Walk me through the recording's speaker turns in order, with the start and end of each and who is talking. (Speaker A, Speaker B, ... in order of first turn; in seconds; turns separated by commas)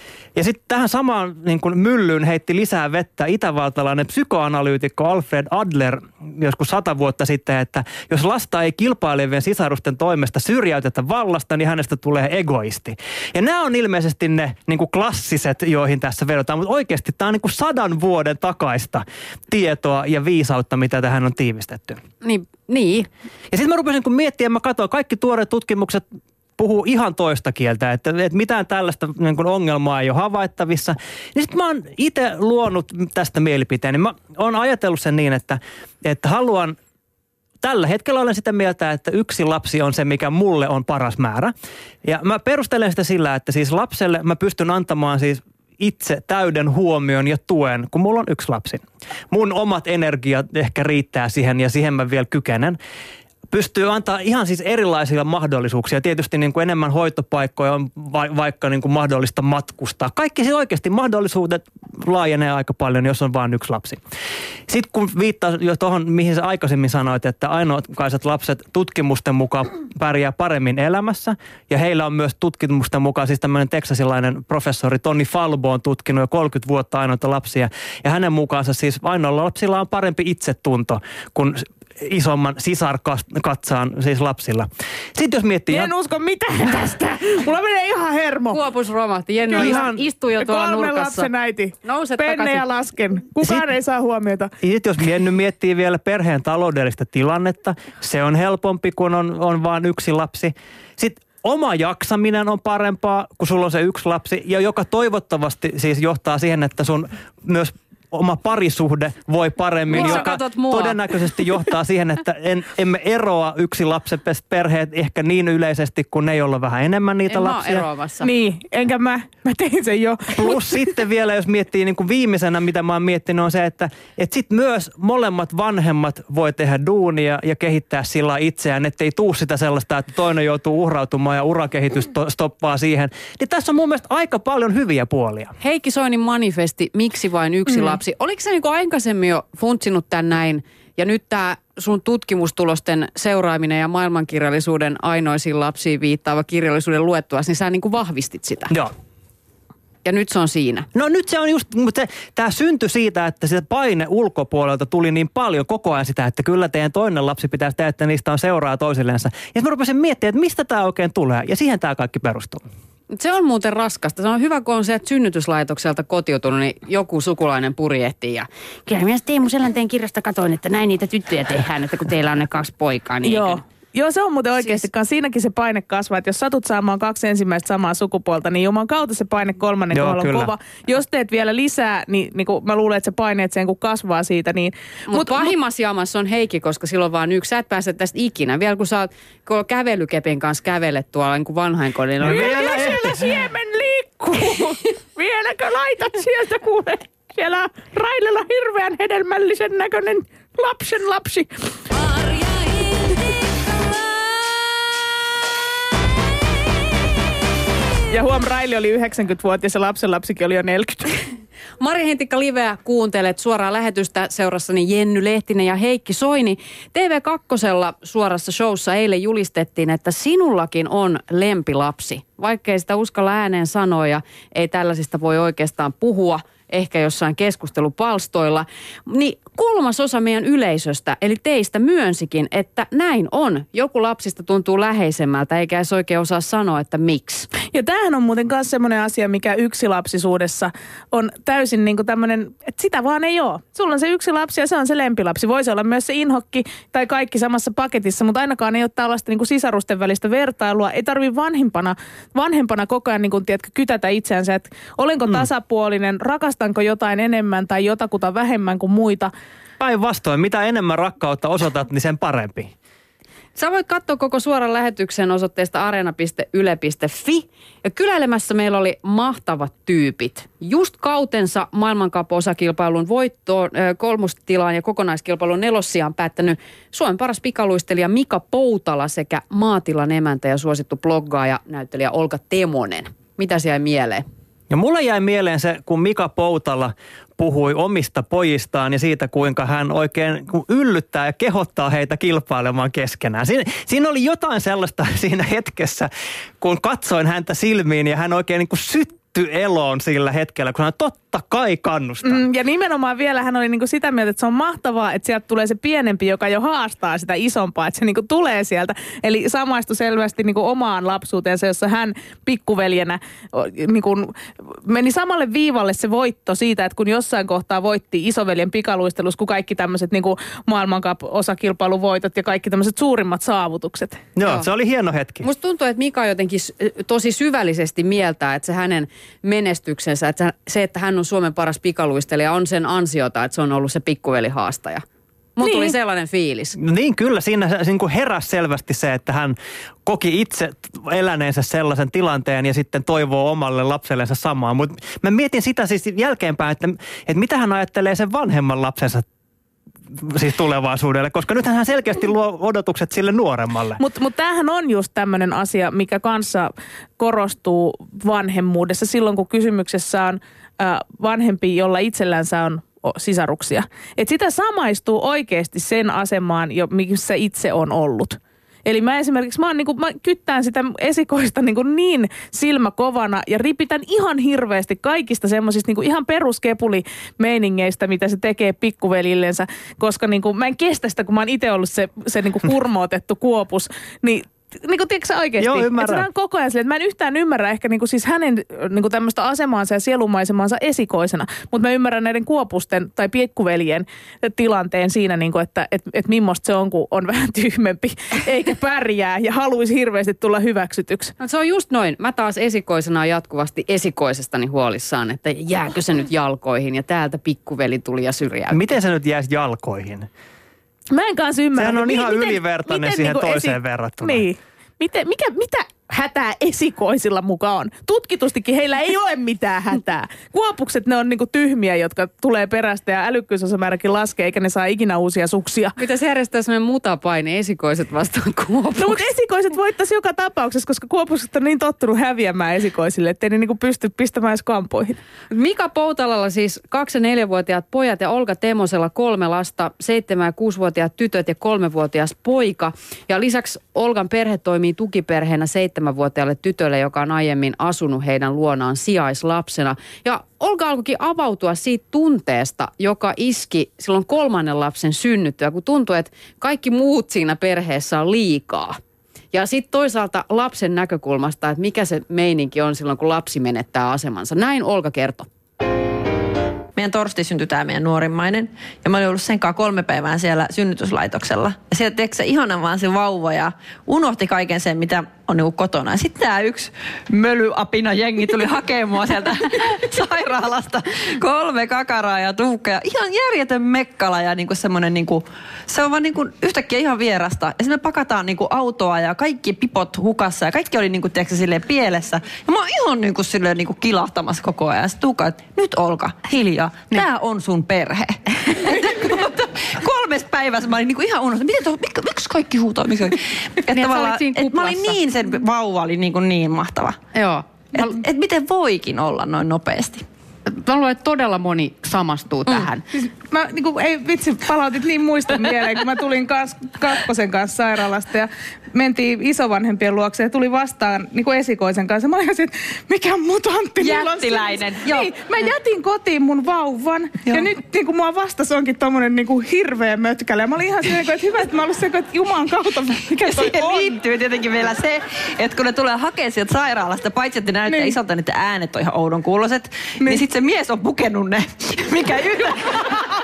Speaker A: 0.3-22.0, Speaker B: 22.2-23.1, Speaker A: 23.5-26.0, Speaker A: 26.6-36.8, Speaker A: 37.6-41.5, Speaker A: 42.0-52.8, Speaker A: 53.5-64.0, Speaker A: 64.7-85.9, Speaker C: 85.7-88.6, Speaker B: 88.5-91.3, Speaker C: 89.5-94.5, Speaker A: 89.5-90.0, Speaker B: 91.8-92.6, Speaker A: 94.6-117.9, Speaker B: 109.9-111.0, Speaker B: 117.3-118.3, Speaker C: 118.2-120.9, Speaker A: 120.3-135.5, Speaker B: 135.6-148.8, Speaker B: 150.0-150.9, Speaker A: 150.9-162.6, Speaker B: 163.1-173.6, Speaker C: 173.2-185.5, Speaker A: 179.9-180.5, Speaker B: 185.1-192.9, Speaker A: 192.2-193.3, Speaker C: 192.2-201.5, Speaker C: 208.1-211.2, Speaker B: 211.8-237.5, Speaker C: 237.7-259.3, Speaker A: 259.8-262.7, Speaker B: 263.6-284.2, Speaker A: 284.7-296.1, Speaker A: 296.6-302.4, Speaker C: 302.2-324.2, Speaker A: 324.4-325.5, Speaker B: 325.4-335.0, Speaker B: 335.6-336.8, Speaker C: 335.6-335.9, Speaker A: 336.8-349.2, Speaker A: 350.2-354.0, Speaker C: 354.0-401.3, Speaker A: 385.6-386.3, Speaker B: 401.4-408.8, Speaker A: 408.7-410.3, Speaker C: 411.1-425.9, Speaker A: 411.8-414.4, Speaker B: 426.0-429.2, Speaker C: 428.9-435.2, Speaker B: 435.5-459.0, Speaker B: 459.5-465.5, Speaker D: 466.9-507.2, Speaker B: 503.9-505.2, Speaker B: 507.3-508.1, Speaker D: 507.9-510.2, Speaker B: 510.7-513.0, Speaker C: 513.1-534.2, Speaker D: 524.0-525.3, Speaker D: 533.4-543.2, Speaker C: 537.9-538.1